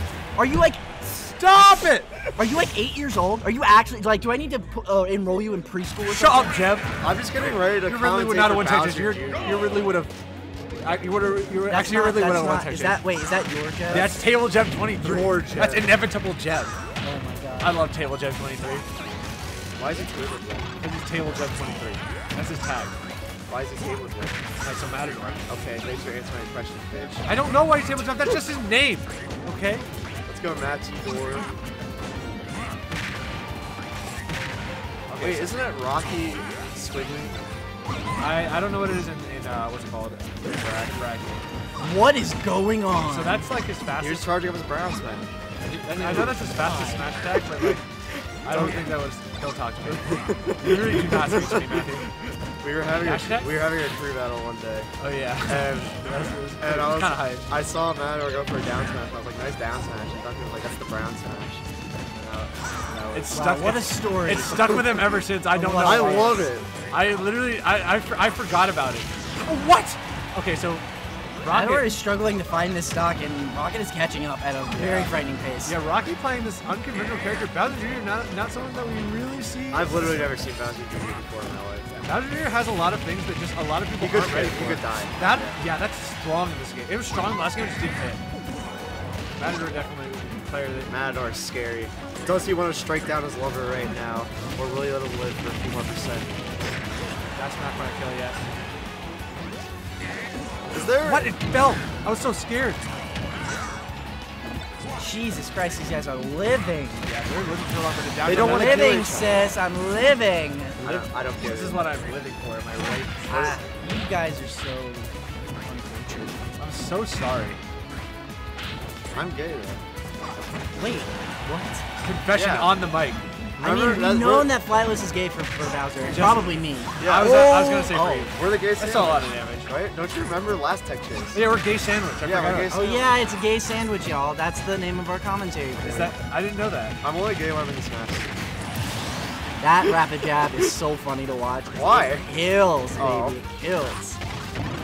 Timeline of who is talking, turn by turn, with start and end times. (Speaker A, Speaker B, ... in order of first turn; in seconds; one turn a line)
Speaker A: 0.4-0.8
Speaker B: 1.1-2.2
Speaker A: 2.4-6.5
Speaker B: 6.1-10.1
Speaker C: 7.0-9.6
Speaker B: 10.8-13.0
Speaker A: 11.7-14.2
Speaker B: 13.9-16.8
Speaker C: 15.0-15.9
Speaker A: 17.0-17.9
Speaker B: 17.6-18.9
Speaker C: 19.8-20.7
Speaker B: 20.8-22.9
Speaker C: 23.5-24.4
Speaker B: 24.6-25.4
Speaker C: 25.5-27.3
Speaker B: 27.3-29.9
Speaker C: 30.3-31.5
Speaker B: 35.1-35.6
Speaker C: 35.2-37.4
Speaker B: 38.2-41.4
Speaker C: 40.6-41.0
Speaker A: 41.8-43.5
Speaker B: 43.0-44.3
Speaker C: 44.0-46.5
Speaker A: 45.9-47.0
Speaker B: 45.9-47.8
Speaker B: 48.4-52.1
Speaker C: 48.5-48.8
Speaker C: 50.1-51.7
Speaker C: 52.6-56.0
Speaker B: 53.0-53.6
Speaker B: 55.0-57.5
Speaker C: 56.6-63.3
Speaker B: 63.1-70.8
Speaker A: 63.3-64.9
Speaker A: 65.5-66.5
Speaker C: 65.7-66.7
Speaker B: 71.4-72.0
Speaker A: 71.5-75.8
Speaker C: 74.8-75.1
Speaker B: 75.7-80.4
Speaker C: 79.7-82.0
Speaker B: 82.0-88.2
Speaker C: 84.0-85.6
Speaker B: 89.4-90.9
Speaker C: 90.9-96.5
Speaker B: 97.4-98.5
Speaker C: 100.7-101.3
Speaker B: 101.0-103.0
Speaker A: 105.0-107.1
Speaker B: 107.1-109.2
Speaker C: 108.2-109.6
Speaker A: 108.3-110.8
Speaker C: 110.8-111.9
Speaker B: 110.8-113.6
Speaker A: 113.3-116.5
Speaker B: 116.6-117.6
Speaker C: 119.1-120.8
Speaker A: 120.8-121.9
Speaker B: 122.0-123.3
Speaker C: 122.3-122.8
Speaker C: 123.6-124.5
Speaker A: 123.6-128.3
Speaker B: 126.0-129.7
Speaker C: 127.0-131.4
Speaker B: 131.3-132.8
Speaker C: 132.2-133.2
Speaker A: 132.7-136.1
Speaker B: 135.8-137.0
Speaker C: 135.9-136.1
Speaker C: 137.0-138.4
Speaker A: 139.6-144.2
Speaker C: 141.7-142.3
Speaker C: 142.9-143.4